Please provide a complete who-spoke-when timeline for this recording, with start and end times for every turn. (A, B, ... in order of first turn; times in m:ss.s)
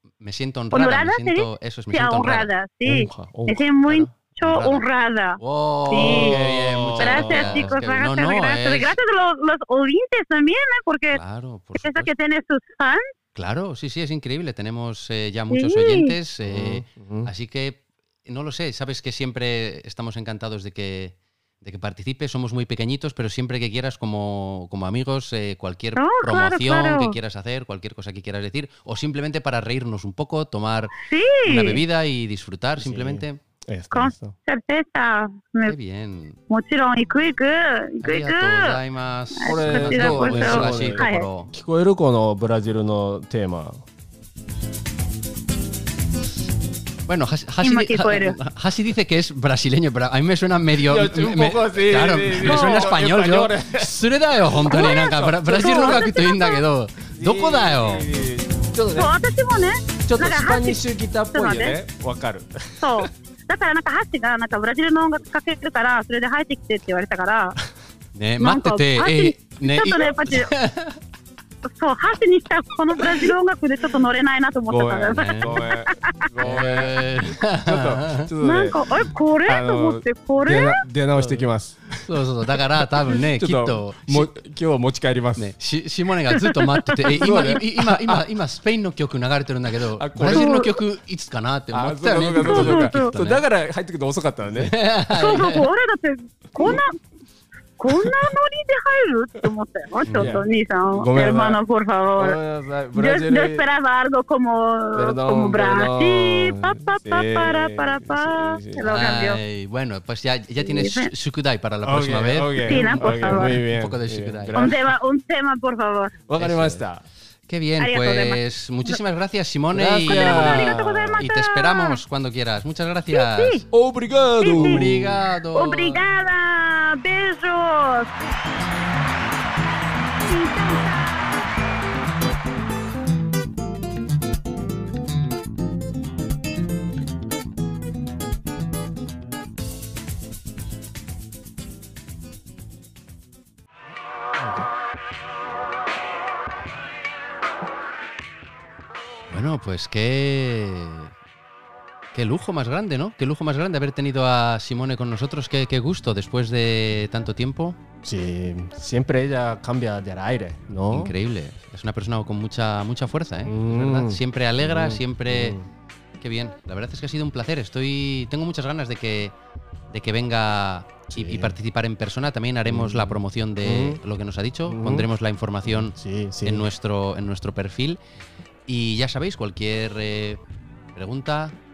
0:00.2-0:02.5 A
0:00.7-0:06.4 B
0:02.8-0:03.6 C
0:03.9-0:04.9 A
0:05.4-0:09.0 A
0:05.9-0:07.8 C
0:07.0-0:11.2 B
0:11.1-0:12.1 A
0:11.7-0:13.0 B
0:13.4-0:33.4 A
0:15.5-0:16.1 B
0:16.4-0:17.3 C
0:26.0-0:27.2 B
0:31.1-0:31.8 B
0:32.8-0:34.4 C
0:33.9-0:35.8 B
0:35.7-0:36.4 A
0:36.5-0:38.8 B
0:38.0-0:41.5 A
0:39.4-0:41.3 B
0:39.5-0:43.8 C
0:47.1-0:58.1 A
0:47.6-0:48.4 B
0:50.8-0:53.9 C
0:52.4-0:52.9 B
0:54.6-0:56.0 C
0:54.6-0:56.6 B
0:57.1-0:59.1 C
0:59.0-1:01.8 B
1:00.1-1:03.1 C
1:02.8-1:07.6 B
1:08.2-1:11.0 A
1:08.4-1:10.5 B
1:11.7-1:16.3 B
1:14.7-1:21.9 C
1:15.1-1:15.6 A
1:16.4-1:18.3 A
1:18.4-1:20.8 B
1:21.2-1:21.4 A
1:22.0-1:24.4 A
1:23.0-1:25.5 C
1:25.4-1:33.4 A
1:26.4-1:27.6 B
1:27.1-1:28.2 C
1:30.0-1:30.5 C
1:30.3-1:30.8 B
1:31.7-1:34.7 C
1:32.4-1:33.2 B
1:34.5-1:35.6 A
1:35.1-1:36.9 B
1:37.8-1:42.4 B
1:40.0-1:40.4 A
1:40.1-1:41.6 C
1:42.2-1:43.6 C
1:42.9-1:49.4 B
1:44.9-1:49.0 C
1:48.9-1:54.7 A
1:50.6-1:51.1 B
1:51.8-1:54.8 C
1:52.6-1:53.6 B
1:54.6-1:56.1 B
1:56.3-1:57.0 C
1:56.4-1:56.9 A
1:57.5-2:03.7 A
1:57.8-1:59.0 B
1:59.7-2:01.2 C
2:00.1-2:02.0 B
2:03.1-2:03.6 B
2:03.7-2:05.2 C
2:04.4-2:05.0 B
2:04.5-2:06.0 A
2:05.5-2:08.1 B
2:10.2-2:11.5 B
2:29.3-2:31.1 A
2:32.1-2:37.8 A
2:38.0-2:41.2 C
2:40.9-2:45.6 A
2:43.4-2:45.7 C
2:46.2-2:49.4 A
2:49.9-2:58.0 A
2:51.1-2:51.6 C
2:52.6-2:54.0 C
2:54.7-2:55.1 C
2:55.7-2:56.7 C
2:58.7-3:00.4 A
3:01.0-3:01.6 A